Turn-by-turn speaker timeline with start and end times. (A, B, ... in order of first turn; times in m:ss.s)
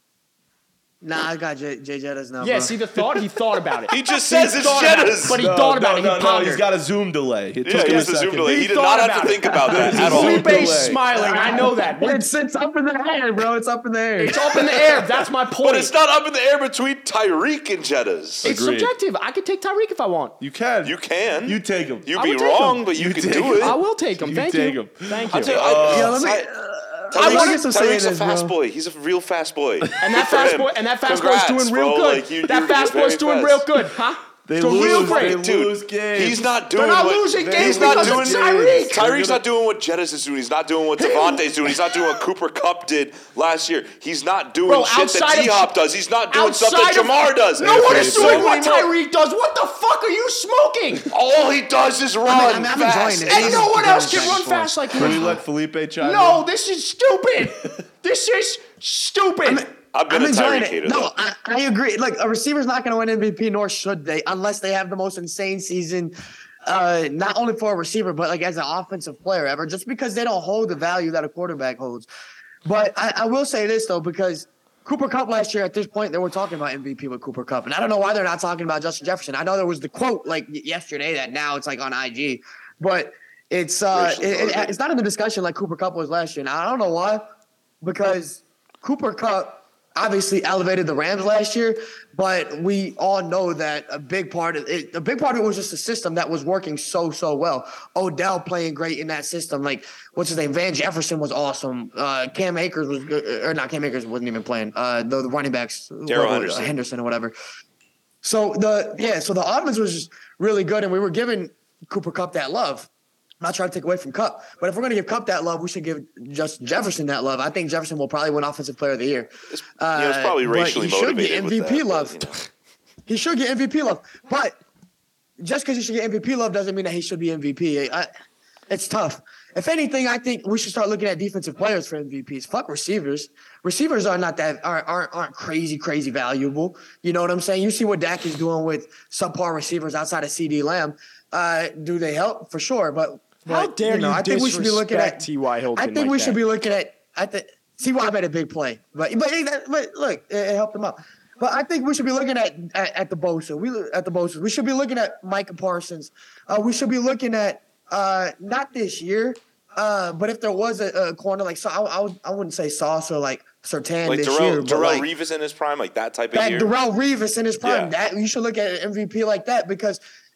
0:01.0-0:03.0 A
0:02.4-0:06.6 B
0:03.9-0:05.4 C
0:05.3-0:08.6 D
0:07.6-0:10.6 C
0:07.8-0:12.2 B
0:09.7-0:11.0 D
0:11.1-0:14.4 A
0:14.2-0:15.9 B
0:14.6-0:18.5 C
0:18.4-0:20.4 B
0:18.4-0:18.9 D
0:20.4-0:22.1 D
0:20.8-0:23.8 C
0:22.2-0:22.9 B
0:22.9-0:26.2 D
0:23.6-0:25.6 B
0:25.3-0:26.5 C
0:25.7-0:28.5 A
0:27.1-0:33.7 C
0:27.2-0:27.6 B
0:30.0-0:35.4 B
0:34.4-0:36.5 D
0:34.8-0:48.9 C
0:36.7-0:39.0 B
0:37.4-0:39.4 D
0:41.0-0:42.2 B
0:44.6-0:45.7 B
0:46.3-0:51.1 B
0:47.6-0:48.5 D
0:51.1-0:54.4 C
0:52.2-0:55.3 A
0:53.3-0:55.4 B
0:54.9-0:56.4 D
0:56.0-0:59.6 B
0:59.4-1:06.1 A
0:59.9-1:01.1 C
1:06.6-1:12.1 A
1:12.6-1:27.3 A
1:23.9-1:24.8 C
1:27.8-1:47.4 A
1:46.1-1:46.7 C
1:48.2-1:52.9 A
1:53.4-2:02.3 A
1:59.5-2:02.4 C
2:03.1-2:04.6 A
2:05.4-2:08.1 A
2:08.7-2:45.1 A
2:23.4-2:26.4 B
2:44.0-2:46.7 C
2:46.3-2:50.0 A
2:47.6-2:47.9 C